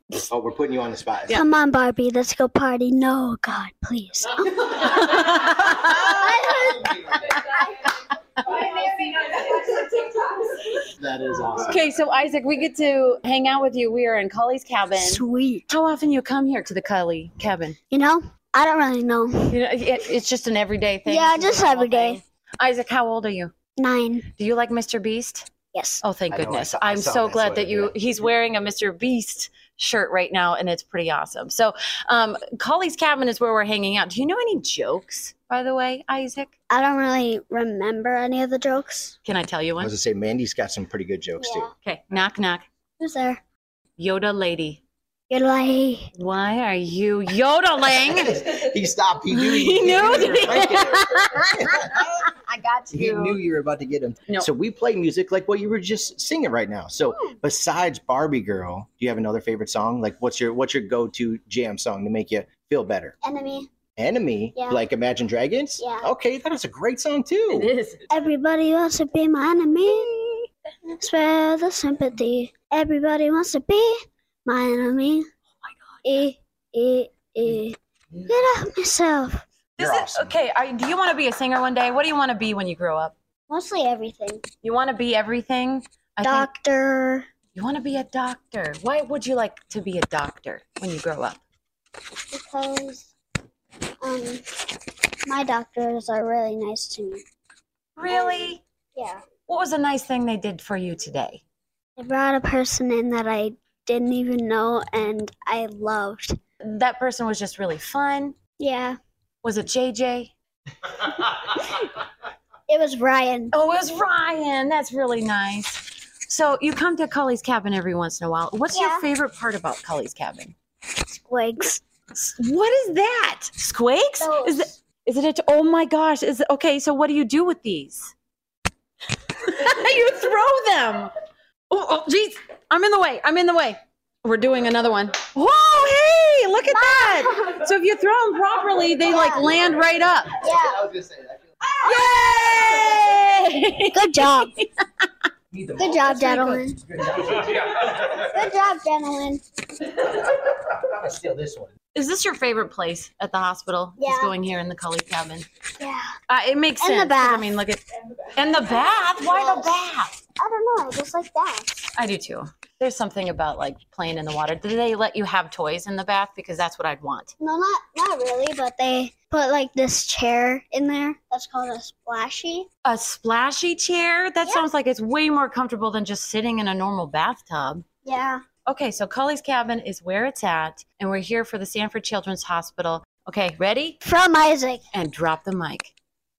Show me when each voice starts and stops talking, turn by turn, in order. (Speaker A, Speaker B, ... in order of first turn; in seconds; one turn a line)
Speaker A: 0.3-1.4
Speaker B: 1.3-7.3
Speaker C: 4.7-6.5
Speaker C: 7.1-7.6
Speaker C: 8.4-10.9
Speaker A: 11.0-11.9
Speaker C: 11.6-17.8
Speaker B: 14.9-15.7
Speaker B: 17.9-19.6
Speaker C: 19.5-23.5
Speaker B: 21.1-22.2
Speaker B: 23.8-24.3
Speaker C: 24.4-25.5
Speaker B: 25.7-26.0
Speaker C: 26.0-36.5
Speaker A: 26.3-27.9
Speaker B: 36.7-39.1
Speaker C: 39.2-39.9
Speaker A: 39.8-41.7
Speaker B: 41.4-41.7
Speaker C: 41.8-42.6
Speaker B: 43.0-43.4
Speaker C: 44.0-44.8
Speaker B: 45.3-46.1
Speaker C: 46.1-48.7
Speaker A: 47.9-52.3
Speaker C: 49.3-53.4
Speaker A: 52.9-63.1
Speaker B: 63.2-63.7
Speaker A: 64.0-67.7
Speaker B: 64.5-64.8
Speaker B: 65.8-66.1
Speaker C: 67.5-68.1
Speaker B: 68.1-70.4
Speaker B: 71.0-75.3
Speaker B: 76.0-79.4
Speaker C: 79.8-83.1
Speaker A: 79.8-80.4
Speaker B: 83.5-84.4
Speaker C: 84.6-86.5
Speaker B: 86.2-87.3
Speaker C: 87.5-91.4
Speaker B: 92.3-93.1
Speaker B: 94.0-94.4
Speaker B: 95.2-97.2
Speaker C: 98.0-98.6
Speaker B: 98.0-99.2
Speaker C: 99.5-101.4
Speaker B: 102.0-106.4
Speaker C: 106.6-108.4
Speaker B: 108.6-109.0
Speaker C: 109.4-110.3
Speaker B: 112.7-113.5
Speaker C: 113.5-120.5
Speaker B: 118.7-119.1
Speaker B: 121.1-121.8
Speaker C: 122.1-128.1
Speaker B: 124.2-124.7
Speaker C: 129.3-131.1
Speaker C: 131.7-140.4
Speaker B: 136.7-137.6
Speaker B: 139.0-139.5
Speaker B: 140.4-140.8
Speaker A: 140.6-141.3
Speaker C: 141.8-145.1
Speaker B: 141.8-142.2
Speaker B: 143.9-144.5
Speaker A: 145.5-146.1
Speaker B: 145.8-146.8
Speaker C: 146.0-146.7
Speaker A: 146.8-147.9
Speaker B: 148.1-149.4
Speaker A: 150.7-151.7
Speaker C: 151.9-155.4
Speaker B: 154.0-154.3
Speaker B: 155.8-156.1
Speaker C: 156.3-160.2
Speaker B: 156.8-157.4
Speaker B: 159.0-159.8
Speaker B: 160.4-161.9
Speaker C: 161.9-167.3
Speaker B: 167.4-172.7
Speaker C: 172.8-177.8
Speaker B: 178.0-178.4
Speaker C: 178.7-184.0
Speaker B: 184.0-184.8
Speaker C: 184.9-185.9